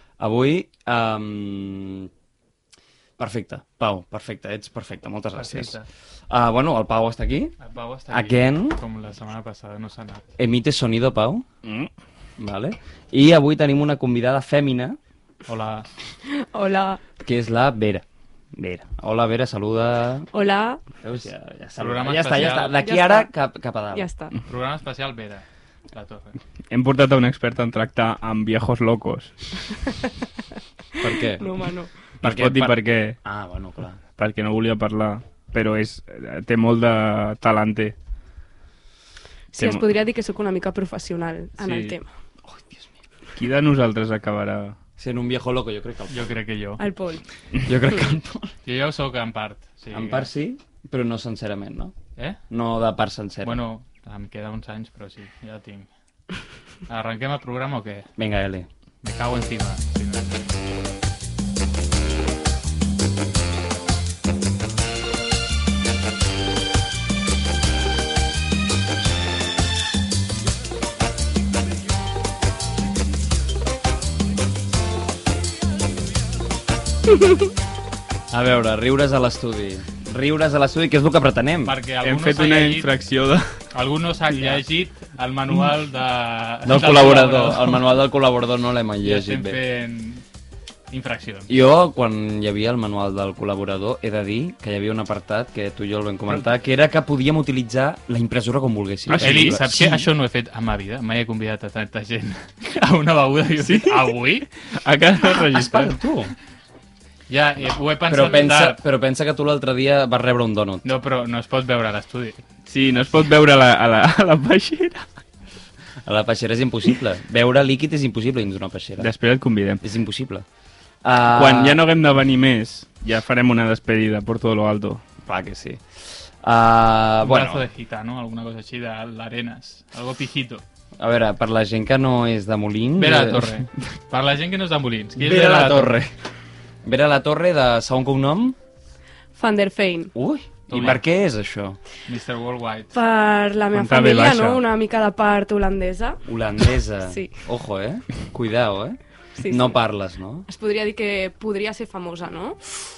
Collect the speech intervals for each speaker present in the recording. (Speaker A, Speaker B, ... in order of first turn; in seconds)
Speaker A: 0.2-2.1, 3.2-5.7, 6.3-7.5, 8.1-8.8, 10.4-11.5, 12.4-15.0, 17.2-20.3, 20.9-24.1, 31.0-31.5, 32.2-34.0, 42.4-42.9, 45.0-46.4, 47.6-48.5, 49.9-51.9, 52.5-53.6, 58.2-58.7, 78.3-81.8, 86.7-89.6, 91.5-100.1, 105.4-106.3, 108.1-110.9, 116.0-119.1, 119.8-120.4, 121.0-121.8, 125.2-127.7, 131.0-133.7, 135.2-136.1, 136.8-138.6, 140.1-141.8, 146.2-150.5
Speaker B: 5.3-5.9, 7.6-10.2, 15.5-15.9, 21.8-22.8, 24.5-26.4, 46.1-46.8, 48.6-50.3, 53.4-55.9, 56.9-58.1, 59.0-60.5, 81.6-82.9, 83.7-87.8, 89.0-90.2, 90.9-91.5, 99.1-104.5, 107.3-108.8, 110.8-112.4, 127.2-130.6, 133.0-136.0, 140.7-141.0, 142.1-142.9
Speaker C: 11.6-11.9, 26.7-29.3, 32.2-33.2, 34.2-38.0, 39.6-39.8, 41.6-42.0, 43.4-44.8, 82.0-83.6, 99.0-99.7, 103.6-106.0, 112.7-115.1, 119.0-119.8, 121.3-125.0, 143.7-144.6
Speaker D: 16.2-17.0, 20.3-20.8, 22.3-23.3, 23.9-24.4, 31.1-31.9, 39.5-42.1, 46.8-47.2, 139.3-140.1, 142.9-147.3, 149.3-149.8, 150.5-152.6